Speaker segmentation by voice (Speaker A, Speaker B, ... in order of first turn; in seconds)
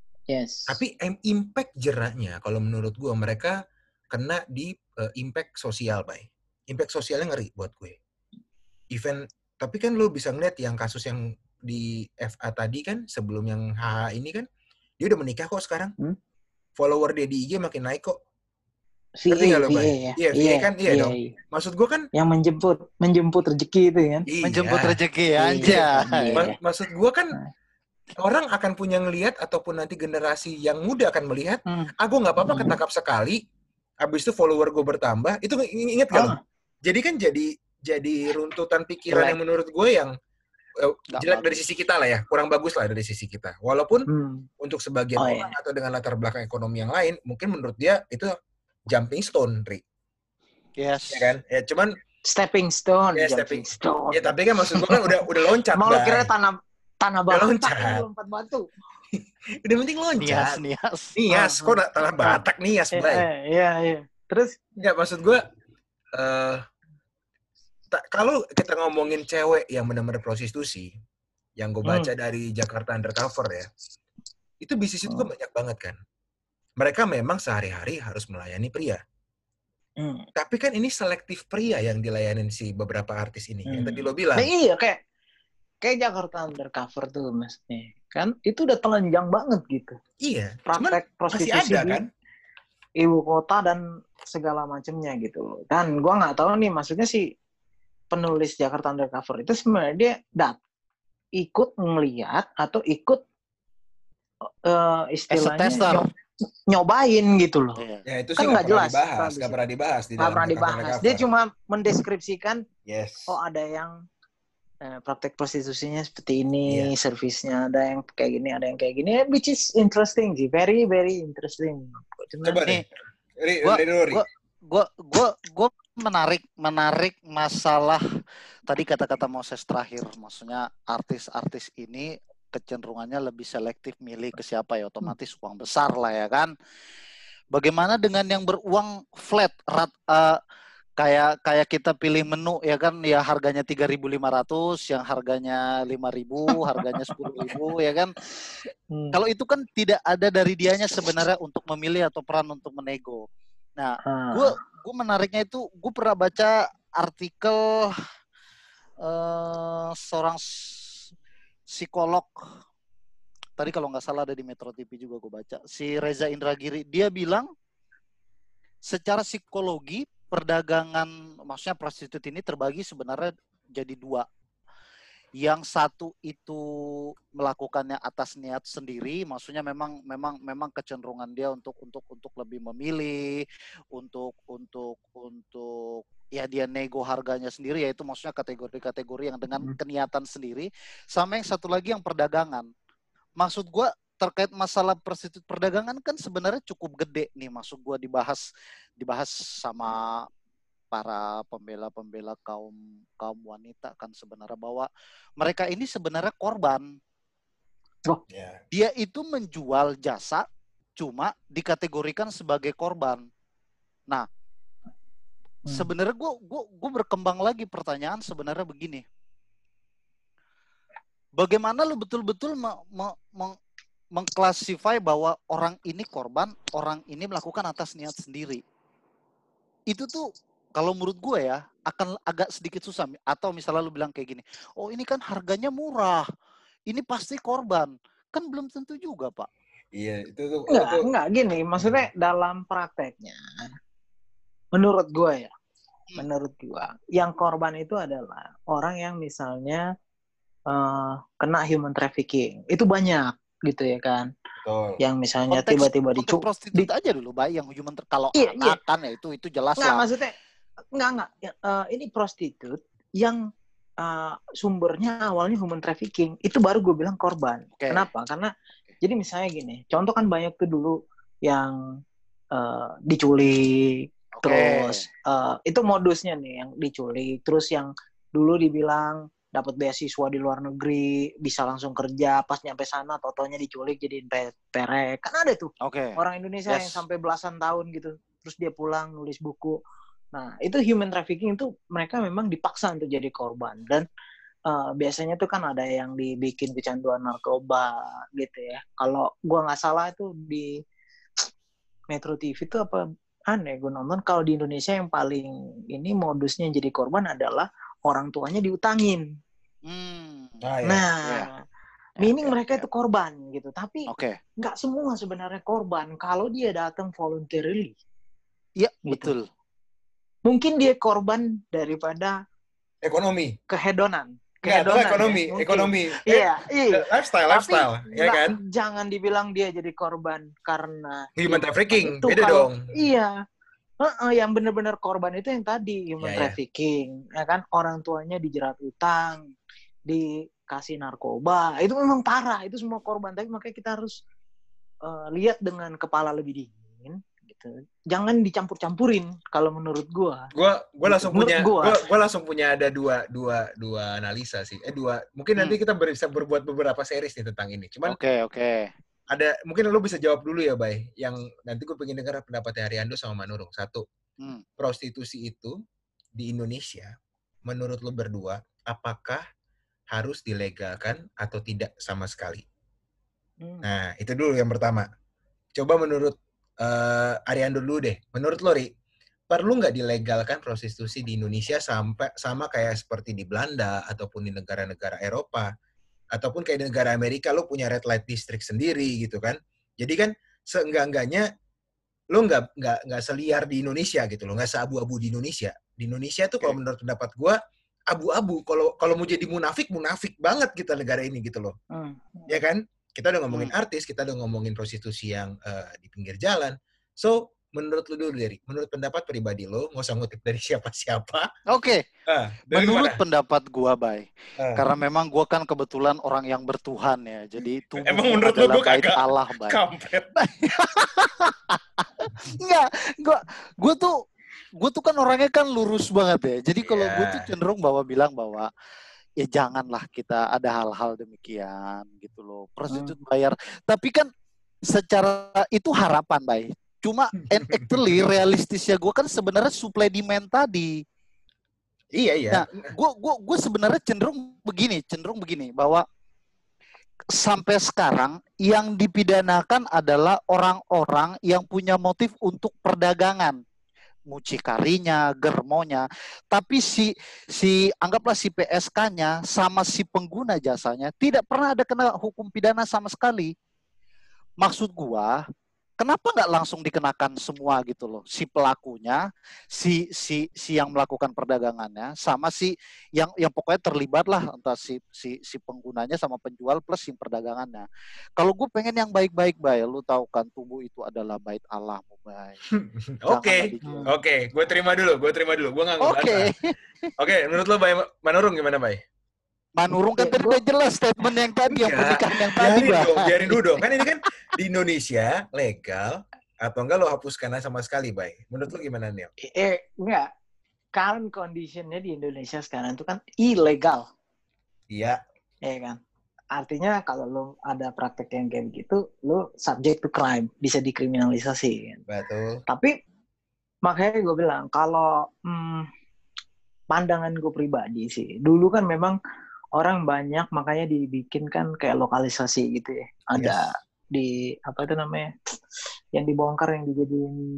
Speaker A: 0.3-0.8, 19.2-21.3, 22.1-24.2, 25.4-26.6, 32.4-32.8, 39.1-39.4, 44.1-44.5, 45.2-45.5, 52.2-58.7, 61.3-62.4, 62.9-64.8, 71.8-72.1, 80.0-80.2, 83.7-85.0, 85.8-90.0, 90.7-92.0, 93.0-97.2, 98.1-100.6, 101.4-103.2, 104.6-106.0, 106.7-107.8, 108.4-109.5, 110.2-112.6, 113.3-114.0, 114.8-122.6, 148.9-149.2, 154.0-154.5, 240.7-243.4, 244.7-245.5, 246.2-249.8, 250.7-254.3, 255.0-256.9, 258.3-258.8, 259.8-260.3, 260.9-263.4, 264.0-268.5, 269.0-271.8, 272.5-289.8, 290.3-294.0, 294.7-300.7, 302.1-309.2, 310.9-311.6, 312.2-317.9, 319.1-319.3, 320.4-322.4, 323.7-333.3, 334.0-339.5, 340.1-344.2, 345.0-350.5, 351.1-352.0, 373.6-373.9, 401.9-402.6, 483.8-484.1, 490.1-490.6, 499.4-500.3, 500.9-504.0, 505.6-506.0, 506.5-512.0, 513.8-515.9, 516.9-519.2, 519.8-525.5, 526.1-527.4
Speaker B: 0.7-3.6, 4.1-8.0, 8.9-14.5, 15.0-15.9, 16.8-18.2, 19.3-22.1, 24.3-25.0, 25.6-27.4, 28.2-33.4, 34.0-40.1, 40.8-44.1, 44.6-48.3, 48.9-49.8, 51.1-52.0, 53.1-56.3, 57.3-58.0, 59.1-60.6, 61.1-63.2, 64.8-65.4, 66.2-66.6, 67.9-70.9, 71.6-73.7, 74.6-76.0, 76.8-79.0, 80.3-84.5, 90.2-92.1, 108.0-111.2, 112.8-113.3, 116.7-116.9, 122.4-122.8, 123.4-124.2, 208.3-208.6, 239.9-241.1, 241.8-242.1, 254.6-255.0, 310.6-311.1, 323.0-323.6, 324.6-328.6, 331.4-332.9, 336.2-336.6, 350.5-358.2, 359.3-364.0, 364.8-365.7, 366.4-367.1, 367.6-369.4, 370.1-372.6, 373.8-375.1, 375.8-378.9, 379.5-385.7, 386.3-391.5, 392.3-397.6, 398.1-401.7, 402.5-411.5, 412.3-413.2, 414.6-414.8, 418.0-420.4, 426.8-427.5, 437.5-437.9, 442.1-442.9, 482.7-486.5, 487.2-489.0, 491.7-499.3, 504.9-505.2, 512.1-512.6, 523.4-523.6
Speaker C: 24.4-26.4, 41.1-41.6, 50.8-51.3, 60.2-61.1, 105.3-106.1, 107.8-108.0, 123.6-128.0, 128.7-136.5, 137.5-140.4, 141.0-148.1, 149.1-153.2, 153.8-158.0, 159.0-160.4, 161.7-162.4, 163.6-167.5, 168.9-174.2, 175.4-192.7, 193.4-198.4, 199.0-200.2, 200.9-207.0, 208.7-210.4, 211.0-213.3, 215.7-219.0, 221.4-223.6, 224.1-228.6, 229.9-236.3, 236.9-239.5, 255.5-260.1, 267.8-268.1, 274.3-275.0, 285.8-287.0, 309.9-310.7, 311.2-311.5, 312.2-312.8, 314.1-314.4, 318.8-319.4, 358.1-358.9, 411.7-412.0, 412.7-419.8, 420.4-424.1, 424.8-428.7, 429.4-434.3, 434.9-440.9, 442.5-446.0, 447.3-453.6, 454.3-463.5, 464.6-465.4, 466.0-482.6, 483.3-484.1, 486.0-487.1, 489.8-494.0